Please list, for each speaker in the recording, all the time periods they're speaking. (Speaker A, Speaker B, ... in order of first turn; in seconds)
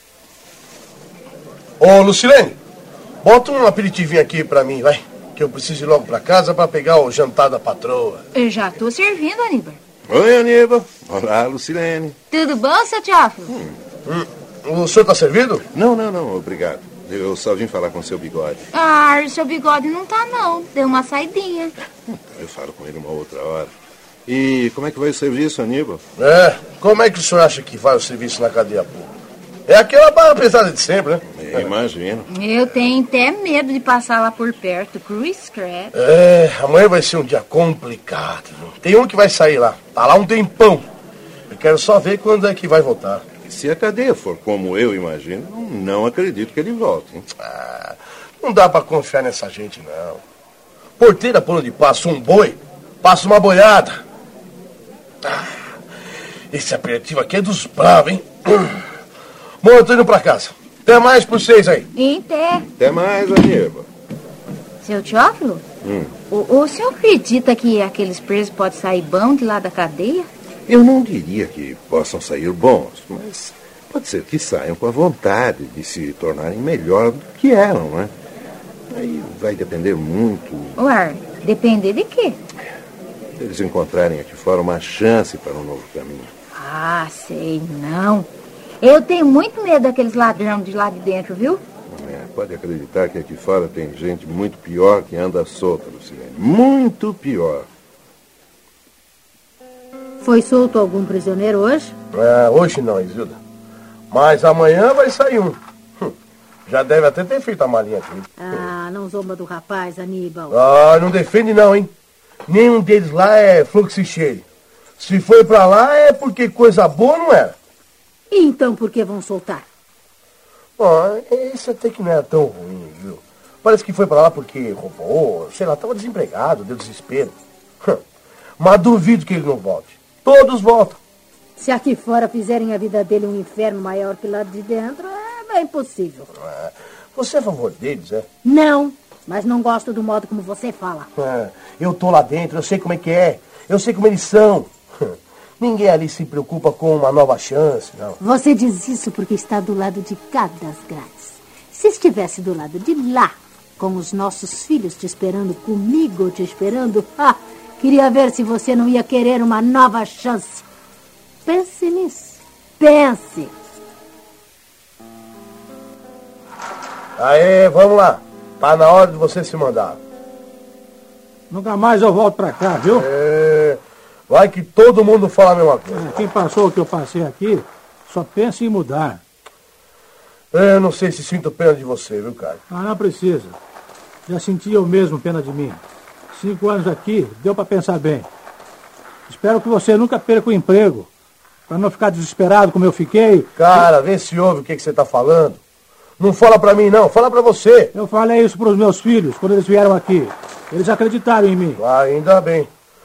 Speaker A: 1.8-2.6, 3.2-8.2, 14.1-15.7, 26.2-29.1, 29.7-31.7, 35.9-40.9, 41.5-43.2, 47.4-50.2, 51.0-54.0, 55.2-55.6, 56.5-58.8, 59.6-61.9, 102.1-103.4, 104.1-106.2, 106.7-108.7, 110.5-111.9, 112.5-114.5, 115.0-117.6, 120.8-128.0, 128.6-131.0, 136.4-138.3, 141.2-148.2, 167.2-170.0, 172.8-176.3, 180.5-182.6, 193.6-195.6, 196.2-197.9, 201.8-202.7
Speaker B: 8.3-9.8, 12.3-13.5, 18.7-21.7, 32.3-35.9, 62.0-62.7, 64.8-65.6, 66.3-70.3, 80.8-82.4, 86.5-88.3, 88.8-91.6
Speaker C: 10.1-12.2, 13.5-13.8, 15.7-18.6, 22.1-23.7, 24.3-26.0, 31.4-32.3, 43.5-47.3, 62.7-63.9, 65.8-66.1, 70.7-78.1, 78.9-80.8, 83.4-86.3, 91.9-97.7
Speaker D: 100.2-102.0, 108.4-110.6, 118.3-119.7, 131.6-136.3, 138.4-141.1, 148.2-160.7, 161.4-163.5
Speaker E: 171.5-172.8, 176.5-179.1, 182.7-183.4, 184.3-185.8, 186.4-188.2, 189.4-190.9, 191.7-193.3, 198.0-201.6